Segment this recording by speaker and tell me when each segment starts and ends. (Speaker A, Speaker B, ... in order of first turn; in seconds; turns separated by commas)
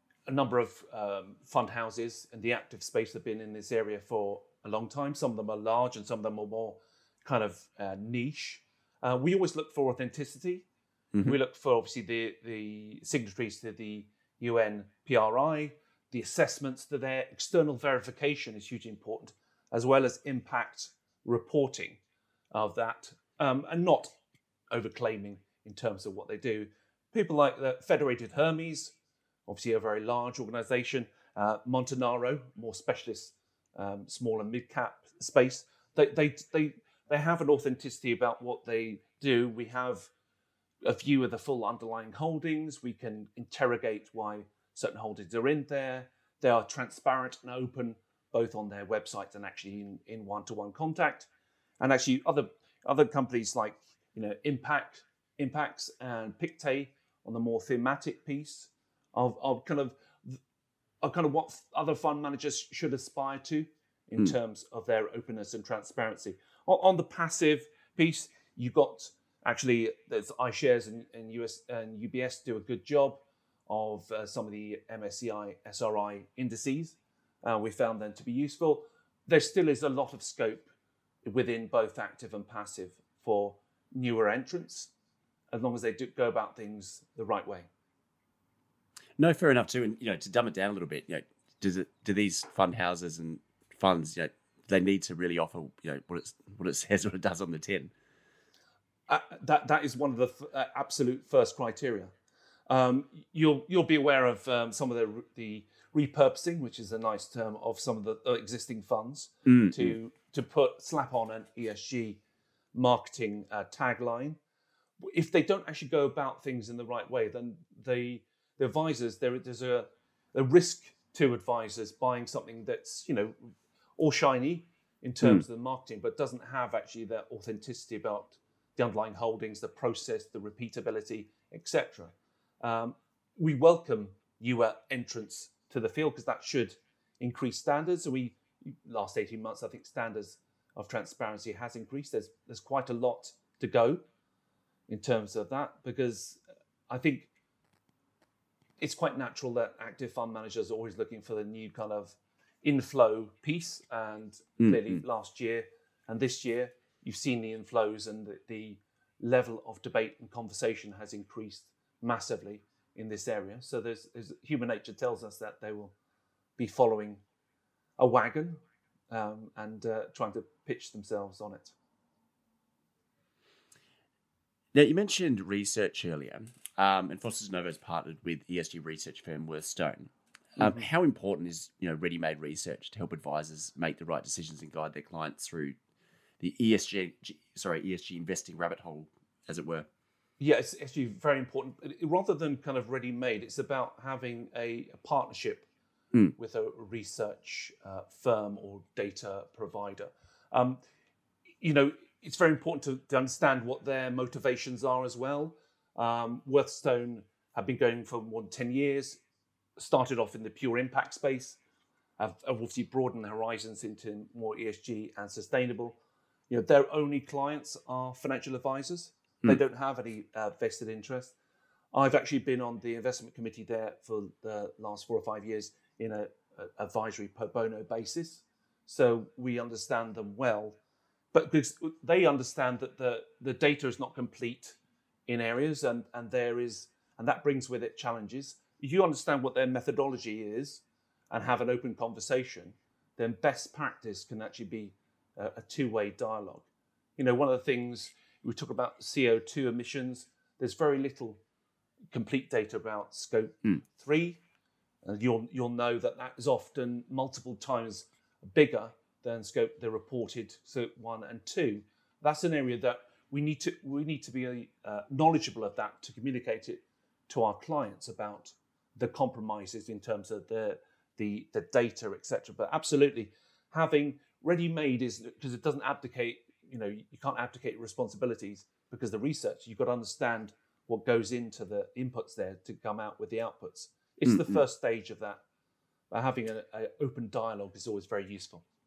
Speaker A: 0.3-10.7, Speaker A: 11.2-22.0, Speaker A: 22.5-24.1, Speaker A: 24.7-28.9, Speaker A: 29.5-40.1, Speaker A: 40.8-60.4, Speaker A: 61.0-80.7, Speaker A: 81.2-84.9, Speaker A: 85.5-87.7, Speaker B: 89.2-97.9, Speaker A: 99.1-102.1, Speaker A: 102.7-112.2, Speaker B: 109.5-110.0, Speaker A: 112.7-114.4, Speaker A: 115.0-144.0, Speaker A: 144.9-147.3, Speaker A: 148.8-165.9, Speaker B: 154.6-155.0, Speaker A: 166.6-167.2, Speaker A: 168.0-171.8, Speaker B: 174.7-185.8, Speaker A: 180.6-180.9, Speaker B: 186.4-189.9, Speaker A: 190.4-195.7, Speaker A: 196.4-200.8, Speaker A: 201.6-209.2, Speaker A: 209.8-211.6, Speaker A: 212.2-216.0, Speaker A: 216.5-221.3, Speaker A: 221.9-230.8, Speaker A: 231.3-251.4, Speaker A: 252.1-254.4, Speaker A: 255.0-285.4, Speaker B: 284.2-284.6, Speaker A: 286.1-288.6